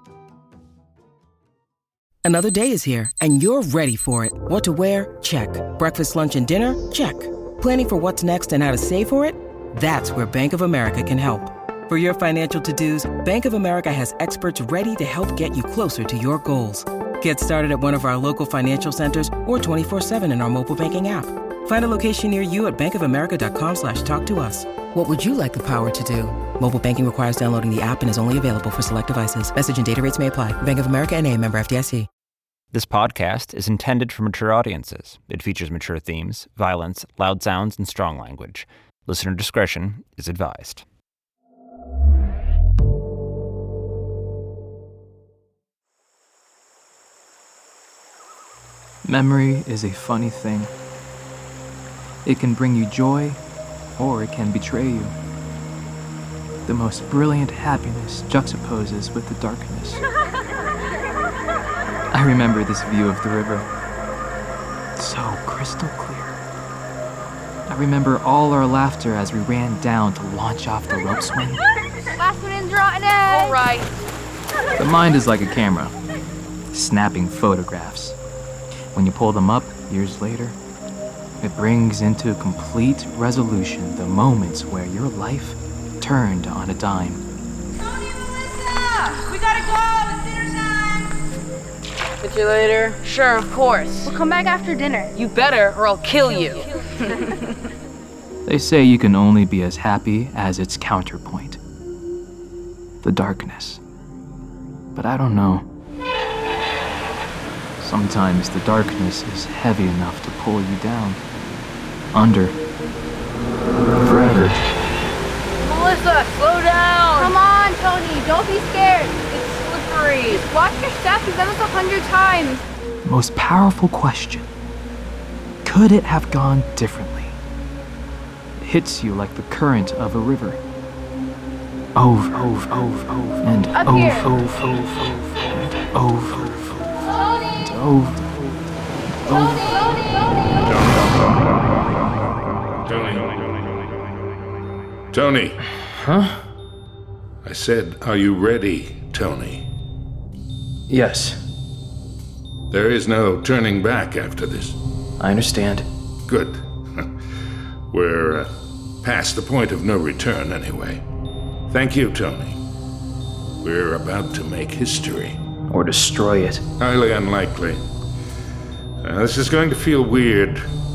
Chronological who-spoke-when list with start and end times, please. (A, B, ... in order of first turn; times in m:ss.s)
0:02.2-0:32.1 A
0:32.7-0:40.8 B
0:49.0-0:50.7 C
0:52.2-0:53.4 C
0:54.0-0:55.2 C
0:56.6-1:00.0 C
1:02.1-1:03.7 C
1:05.0-1:06.4 C
1:07.7-1:11.6 C
1:12.2-1:13.8 D
1:13.3-1:13.7 E
1:14.8-1:15.9 C
1:16.7-1:18.2 C
1:18.9-1:20.6 C
1:21.4-1:27.2 C
1:32.2-1:34.1 E
1:34.0-1:35.1 D
1:35.1-1:36.7 E
1:38.4-1:41.6 C
1:43.0-1:43.8 C
1:44.9-1:45.6 C
1:47.8-1:51.2 C
1:52.1-1:52.6 C
1:54.0-1:54.6 C
1:55.6-1:57.3 E
1:57.1-1:59.4 D
1:59.4-2:00.4 E
2:00.2-2:02.6 D
2:03.0-2:04.5 C
2:05.6-2:07.4 C
2:08.6-2:10.6 C
2:11.9-2:17.0 C
2:13.8-2:14.3 D
2:17.6-2:18.6 C
2:19.3-2:19.7 C
2:20.6-2:21.2 F
2:22.8-2:23.4 F
2:25.1-2:25.6 F
2:25.9-2:26.4 C
2:27.4-2:29.6 F
2:30.9-2:31.4 C
2:32.7-2:34.8 F
2:35.2-2:35.9 C
2:36.3-2:37.1 F
2:37.9-2:38.5 F
2:39.0-2:41.0 F
2:41.7-2:42.6 F
2:43.6-2:45.4 F
2:45.7-2:46.6 C
2:46.8-2:47.8 F
2:49.0-2:50.6 F